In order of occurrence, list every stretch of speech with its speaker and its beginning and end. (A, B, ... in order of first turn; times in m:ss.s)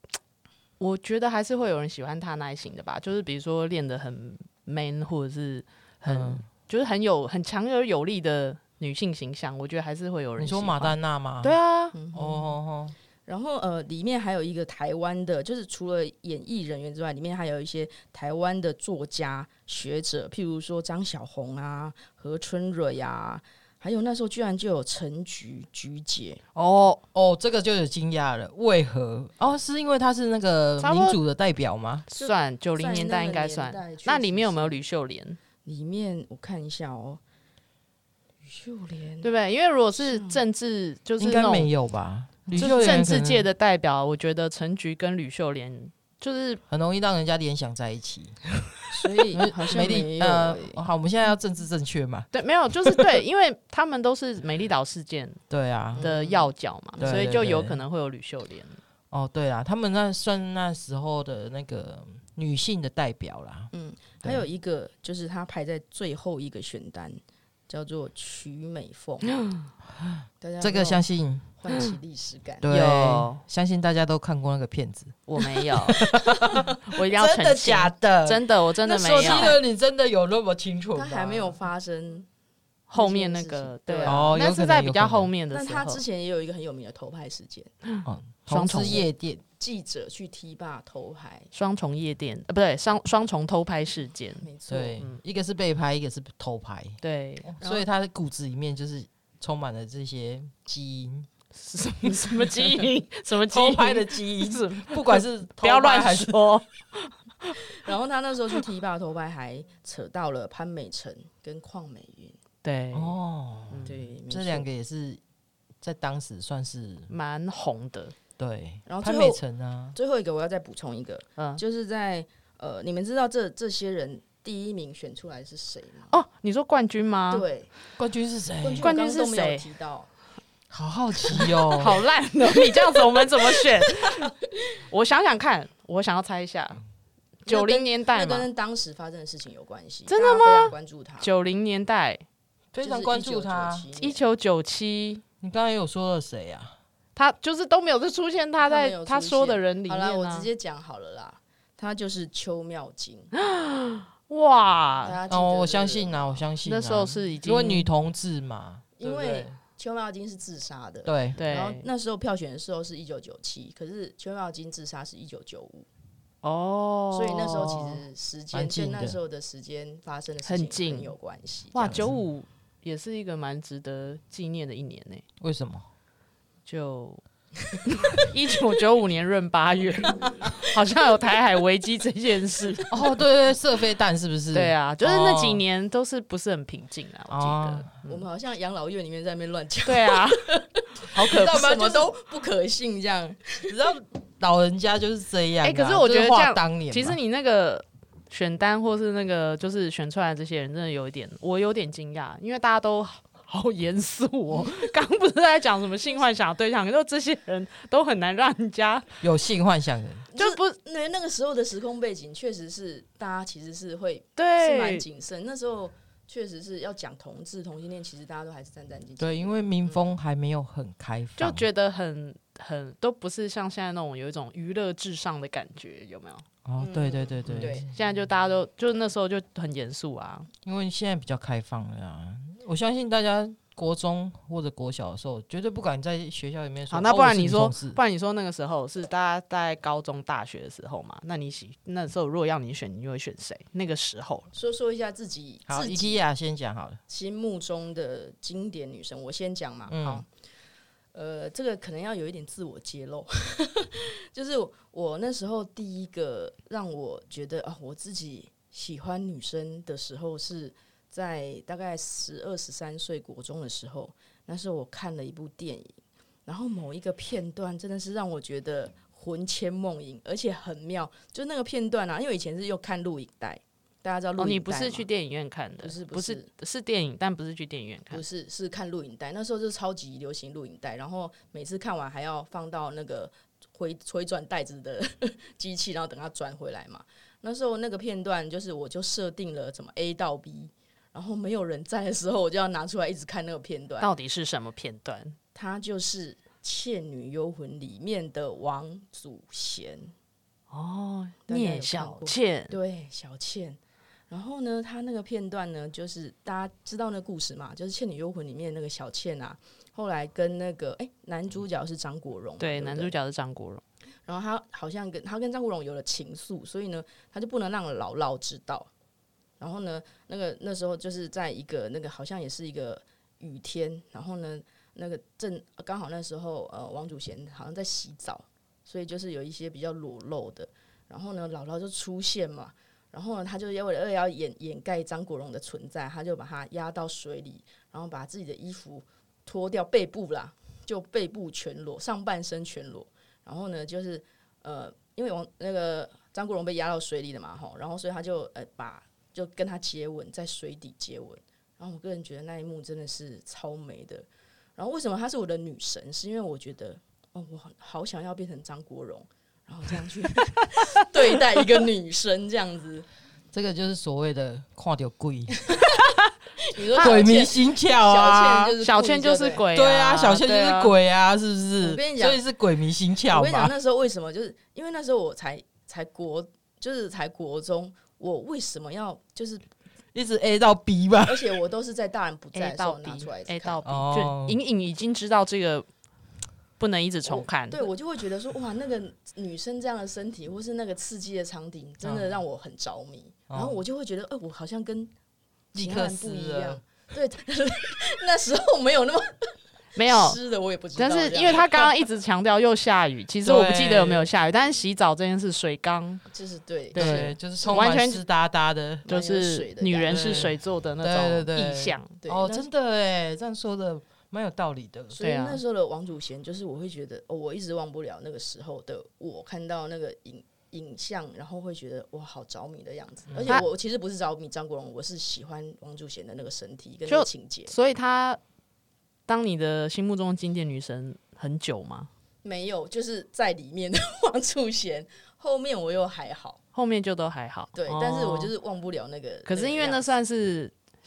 0:00.8-0:12.0 A
0:06.1-0:06.4 B
0:10.4-0:11.6 B
0:11.9-0:12.6 C
0:12.1-0:12.9 B
0:13.3-0:26.4 C
0:26.6-0:27.0 A
0:27.1-0:32.1 B
0:30.8-0:31.2 A
0:32.1-0:35.4 A
0:32.1-0:34.8 C
0:35.6-0:37.2 C
0:38.4-0:39.3 C
0:39.2-0:41.7 A
0:40.0-0:40.4 C
0:41.2-0:43.5 B
0:42.5-0:46.6 A
0:46.7-0:48.4 B
0:48.9-0:50.8 C
0:49.3-0:52.3 B
0:52.3-0:55.4 A
0:55.5-0:56.1 B
0:56.0-0:57.4 C
0:56.0-0:58.8 A
0:57.0-0:57.8 B
0:59.1-1:03.7 B
1:03.7-1:09.4 C
1:10.0-1:11.4 B
1:10.4-1:12.7 C
1:12.6-1:21.6 B
1:12.7-1:13.4 A
1:15.3-1:16.1 A
1:16.9-1:19.6 A
1:18.9-1:19.6 C
1:20.9-1:22.3 C
1:22.9-1:26.0 A
1:22.9-1:24.3 C
1:24.0-1:25.3 B
1:25.5-1:27.7 C
1:27.9-1:29.1 A
1:28.0-1:29.4 B
1:29.6-1:31.5 C
1:31.5-1:34.5 A
1:34.4-1:35.0 C
1:34.7-1:41.3 B
1:37.0-1:37.5 A
1:37.6-1:37.9 C
1:41.6-1:47.6 A
1:42.1-1:42.5 B
1:43.5-1:46.4 B
1:47.8-1:52.4 C
1:52.6-1:53.2 A
1:52.9-1:55.2 B
1:53.8-1:54.7 C
1:55.8-1:57.1 B
1:57.1-1:58.1 A
1:58.4-2:00.0 B
1:58.8-1:59.4 C
1:59.9-2:06.2 C
2:06.1-2:07.5 A
2:07.3-2:07.7 C
2:08.0-2:08.9 B
2:08.6-2:10.1 C
2:08.8-2:09.6 A
2:10.7-2:12.0 B
2:11.3-2:14.3 A
2:14.8-2:16.8 A
2:17.5-2:18.5 A
2:17.5-2:21.3 C
2:20.1-2:22.2 A
2:22.7-2:23.9 B
2:22.8-2:24.2 C
2:24.0-2:25.2 A
2:25.4-2:26.8 B
2:27.2-2:30.5 A
2:28.6-2:33.3 C
2:33.4-2:35.2 A
2:35.0-2:36.5 C
2:35.3-2:39.6 B
2:36.6-2:37.9 A
2:39.0-2:45.9 C
2:41.0-2:41.4 B
2:41.4-2:41.8 A
2:46.4-2:48.0 A
2:47.1-2:52.0 C
2:48.5-2:49.2 B
2:50.5-2:51.1 A
2:51.7-2:55.2 A
2:51.8-2:52.2 B
2:55.4-2:55.9 B
2:56.7-2:57.2 A
2:57.9-3:03.0 A
3:00.2-3:01.1 C
3:02.9-3:05.6 B
3:04.5-3:08.2 A
3:07.3-3:07.9 B
3:08.1-3:13.7 C
3:09.9-3:10.6 A
3:11.1-3:11.9 A
3:11.2-3:12.0 B
3:13.7-3:17.2 B
3:15.6-3:29.1 A
3:29.2-3:30.3 B
3:30.3-3:40.1 C
3:30.4-3:30.8 A
3:34.4-3:35.0 A
3:39.2-3:41.6 B
3:41.4-3:46.5 A
3:46.6-3:47.9 B
3:46.8-3:47.9 C
3:47.5-3:50.5 A
3:50.6-3:58.0 B
3:56.9-4:04.5 A
4:04.5-4:06.2 C
4:05.7-4:07.0 B
4:07.1-4:10.3 C
4:09.9-4:10.2 B
4:11.1-4:35.1 C
4:34.4-4:38.2 A
4:35.8-4:36.5 C
4:38.1-4:54.1 C
4:54.0-4:55.4 A
4:55.6-5:00.1 C
5:00.7-5:02.8 A
5:01.5-5:03.8 C
5:04.3-5:13.2 C
5:12.6-5:13.8 A
5:14.3-5:18.9 C
5:19.6-5:54.3 C
5:54.8-6:03.1 C
6:03.5-6:05.9 B
6:06.7-6:09.6 C
6:06.9-6:08.8 B
6:08.8-6:10.9 A
6:09.7-6:13.7 B
6:11.8-6:12.4 C
6:13.3-6:19.6 C
6:20.1-6:21.5 B
6:21.3-6:23.9 C
6:22.6-6:25.9 A
6:23.8-6:24.6 B
6:26.8-6:27.9 A
6:27.2-6:35.1 C
6:32.0-6:32.4 B
6:33.5-6:33.8 B
6:35.7-6:36.8 B
6:35.7-6:41.9 C
6:40.0-6:40.4 A
6:41.0-6:46.2 A
6:43.4-6:44.3 B
6:46.3-6:47.9 C
6:46.9-6:48.2 A
6:47.0-6:49.1 B
6:49.1-6:50.5 C
6:49.1-6:52.2 A
6:50.0-6:55.2 B
6:52.2-6:52.7 C
6:55.1-7:07.7 C
6:55.2-6:55.6 A
7:03.3-7:03.6 B
7:07.1-7:08.4 A
7:09.3-7:12.1 A
7:12.4-7:16.6 C
7:16.7-7:18.5 A
7:17.8-7:20.2 C
7:19.5-7:20.7 A